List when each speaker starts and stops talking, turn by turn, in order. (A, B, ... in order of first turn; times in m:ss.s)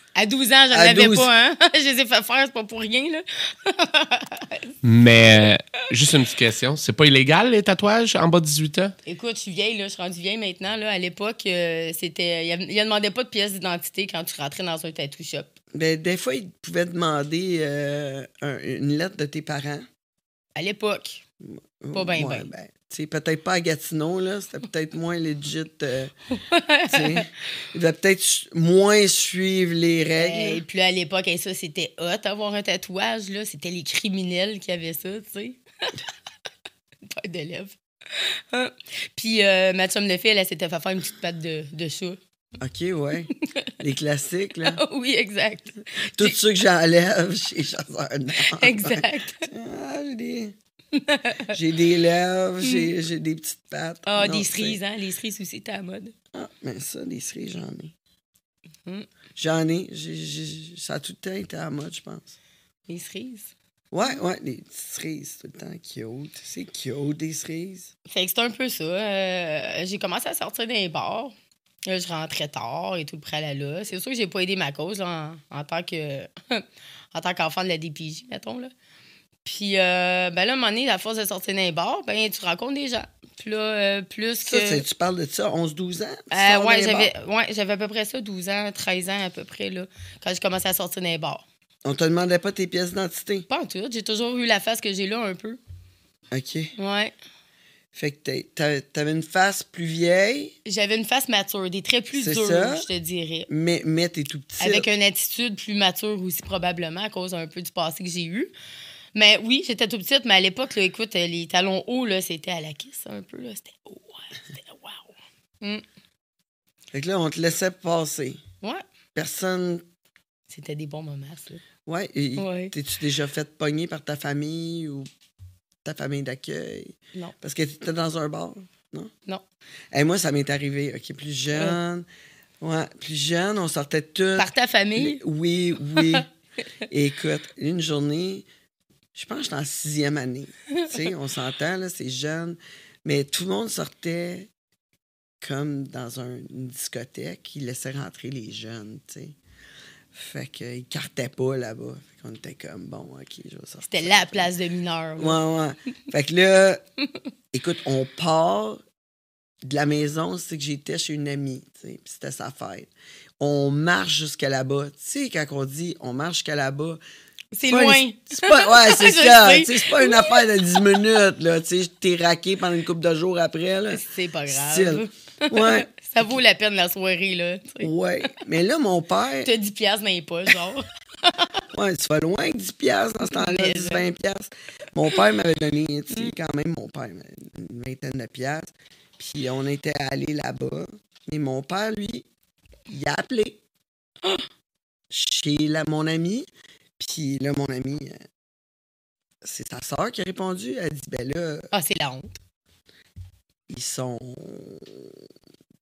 0:00.1-0:04.8 A
0:00.7-0:01.3 B
0:04.8-0:08.9 C
0:09.0-0:15.5 A
0:15.8-0:19.9 B
0:20.6-0:21.2 A
0:21.4-0:26.1 B
0:21.9-0:22.5 A
0:26.3-0:27.3 A
0:26.9-0:30.6 B
0:30.2-0:36.0 A
0:37.1-0:42.2 A
0:42.6-0:44.8 B
0:43.3-0:43.7 A
0:44.7-0:46.4 A
0:46.1-0:50.6 B
0:48.4-0:49.5 A
0:50.9-0:51.6 A
0:51.5-0:54.8 B
0:52.6-0:52.9 A
0:54.1-0:56.1 A
0:56.3-0:57.9 B
0:59.4-1:02.4 B
1:02.9-1:03.5 A
1:03.9-1:07.9 B
1:08.1-1:11.4 A
1:11.9-1:18.7 A
1:19.4-1:24.8 A
1:24.5-1:27.1 B
1:26.3-1:31.4 A
1:31.8-1:33.5 B
1:33.5-1:35.6 A
1:36.3-1:36.7 B
1:36.8-1:37.1 A
1:37.9-1:40.5 B
1:40.6-1:43.5 A
1:42.1-1:42.9 B
1:43.5-1:44.9 B
1:44.6-1:48.5 A
1:49.2-1:55.8 A
1:56.9-1:58.4 B
1:59.2-1:59.8 B
2:00.5-2:01.6 A
2:01.9-2:05.1 B
2:02.4-2:02.7 A
2:05.8-2:09.1 B
2:09.9-2:12.1 B
2:11.5-2:11.8 A
2:12.6-2:16.3 B
2:14.4-2:15.2 A
2:16.0-2:16.2 A
2:16.9-2:18.5 B
2:19.2-2:24.5 B
2:20.8-2:21.0 A
2:25.4-2:29.4 B
2:30.1-2:34.5 B
2:33.9-2:35.4 A
2:35.2-2:36.8 B
2:37.5-2:38.8 B
2:39.6-2:47.0 B
2:47.5-2:51.1 A
2:47.6-2:55.9 B
2:53.9-2:57.9 A
2:57.8-2:59.5 B
2:59.4-3:01.6 A
3:01.7-3:12.3 B
3:03.3-3:04.1 A
3:12.9-3:13.6 B
3:15.1-3:16.5 B
3:17.0-3:18.2 B
3:19.4-3:21.7 B
3:21.7-3:22.4 A
3:23.7-3:25.2 B